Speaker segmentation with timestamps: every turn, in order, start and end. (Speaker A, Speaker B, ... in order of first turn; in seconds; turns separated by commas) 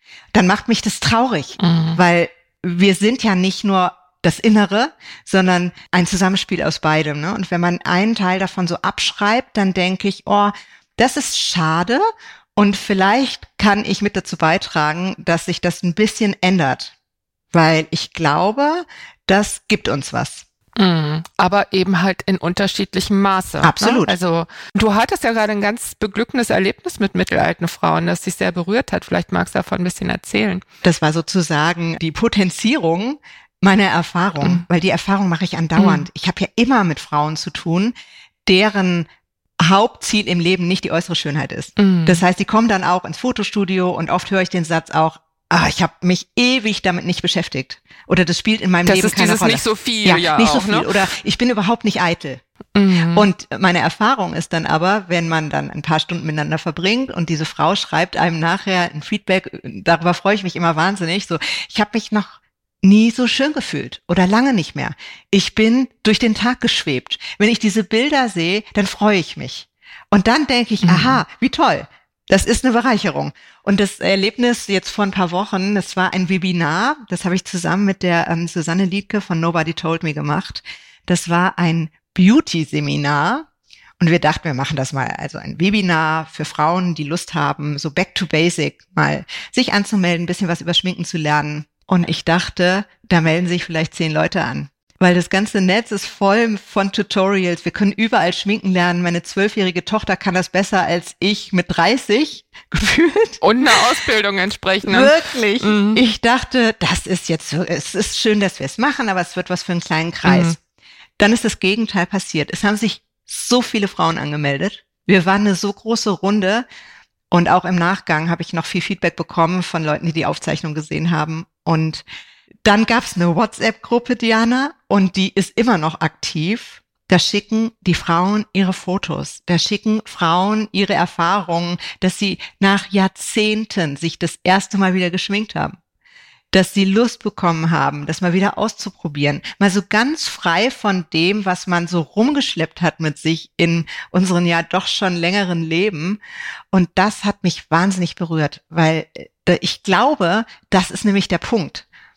Speaker A: 0.3-12.0, Speaker B: 1.6-2.0, Speaker A: 12.6-16.9, Speaker A: 17.5-20.4, Speaker B: 20.8-30.6, Speaker A: 23.6-24.1, Speaker A: 30.8-37.9, Speaker B: 35.8-36.0, Speaker A: 38.5-39.1, Speaker A: 39.6-52.4, Speaker B: 41.8-42.2, Speaker B: 48.8-51.0, Speaker B: 52.7-53.3, Speaker A: 53.1-83.5, Speaker B: 70.8-71.2, Speaker A: 84.0-104.0, Speaker B: 103.4-106.0, Speaker A: 104.8-110.5, Speaker B: 110.2-110.5, Speaker A: 111.2-116.6, Speaker A: 117.3-122.0, Speaker A: 122.6-135.8, Speaker A: 136.5-146.2, Speaker A: 146.7-151.8